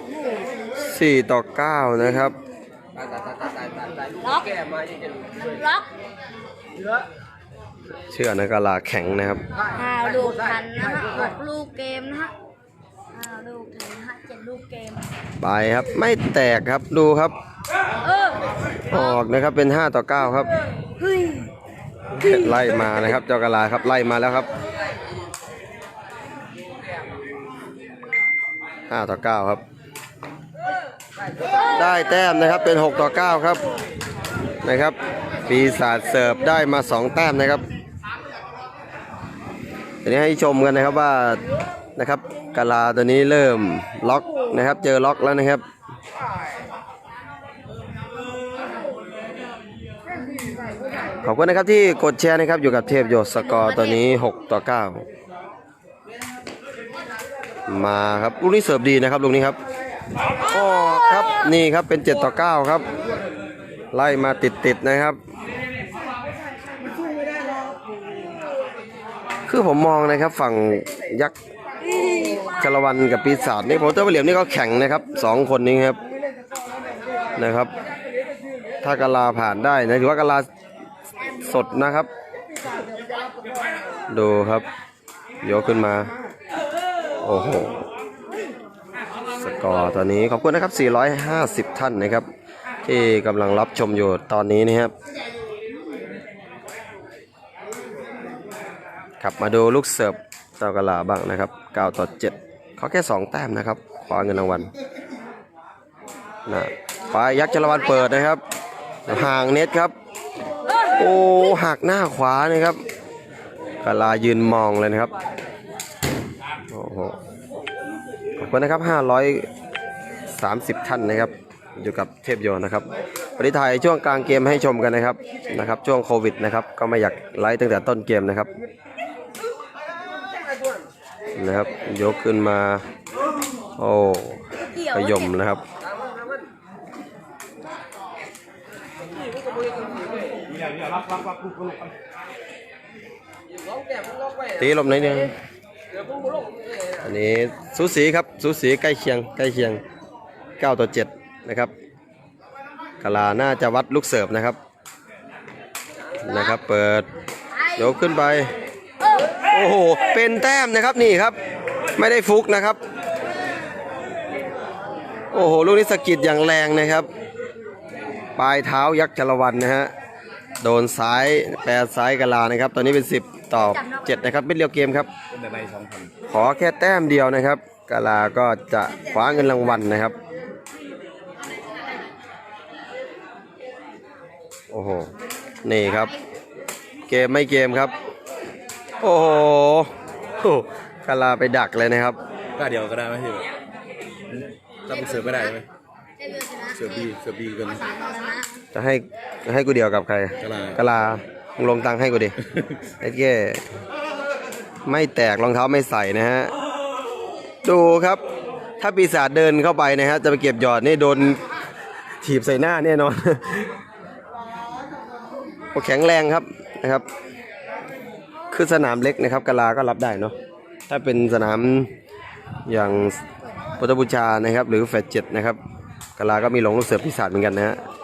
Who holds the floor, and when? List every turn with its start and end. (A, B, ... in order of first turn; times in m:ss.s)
0:00.8-0:02.4 A
0:03.0-0:05.4 B
0:04.2-0:04.5 C
0:05.4-0:05.9 C
0:08.1-0:09.4 A
0:09.8-0:12.3 C
0:13.1-0:15.0 C
0:15.4-0:17.4 A
0:18.0-0:19.2 C
0:18.9-0:20.5 A
0:21.0-0:21.5 C
0:22.2-0:24.5 A
0:28.9-0:29.6 A
0:31.6-0:33.6 A
0:34.6-0:37.6 A
0:40.0-0:41.4 A
0:42.0-0:45.6 A
0:51.2-0:55.0 A
0:53.6-0:53.8 C
0:57.7-0:59.6 A
1:00.4-1:02.9 A
1:03.9-1:05.2 A
1:09.5-1:11.4 A
1:12.4-1:16.0 A
1:17.4-1:17.7 A
1:18.8-1:20.5 A
1:21.4-1:22.1 A
1:24.1-1:24.7 A
1:25.4-1:26.1 A
1:27.2-1:27.9 A
1:29.4-1:32.3 A
1:32.8-1:34.9 A
1:39.2-1:44.7 A
1:46.5-1:48.4 A
1:49.1-1:49.9 A
1:51.0-1:52.8 A
1:53.8-1:55.1 A
1:56.7-1:57.2 A
1:58.4-1:59.5 A
2:00.3-2:08.5 A
2:11.4-2:12.8 A
2:13.8-2:15.6 A
2:14.7-2:15.3 C
2:16.0-2:16.3 B
2:19.4-2:20.4 B
2:20.5-2:21.9 D
2:23.8-2:24.5 B
2:24.6-2:25.4 A
2:26.2-2:26.9 B
2:27.0-2:29.8 A
2:30.6-2:31.7 A
2:33.0-2:34.6 A
2:36.2-2:37.1 A
2:37.7-2:38.5 A
2:39.5-2:41.4 A
2:42.0-2:42.8 A
2:45.3-2:47.1 A
2:48.4-2:49.9 A
2:50.6-2:55.1 A
2:55.3-2:56.1 D
2:56.3-3:00.2 A
3:04.7-3:05.1 A
3:05.6-3:06.2 A
3:07.1-3:07.9 A
3:09.0-3:12.2 A
3:12.6-3:13.5 D
3:14.4-3:15.6 D
3:15.0-3:15.3 C
3:16.2-3:16.7 C
3:16.7-3:17.9 D
3:17.9-3:18.5 C
3:18.7-3:22.4 A
3:20.4-3:20.8 D
3:23.0-3:23.6 A
3:24.9-3:26.5 A
3:27.6-3:28.2 A
3:28.8-3:31.4 A
3:32.2-3:33.7 A
3:35.7-3:37.1 A
3:38.5-3:40.3 A
3:40.9-3:41.9 A
3:42.7-3:43.2 A
3:43.8-3:45.6 A
3:46.2-3:47.8 A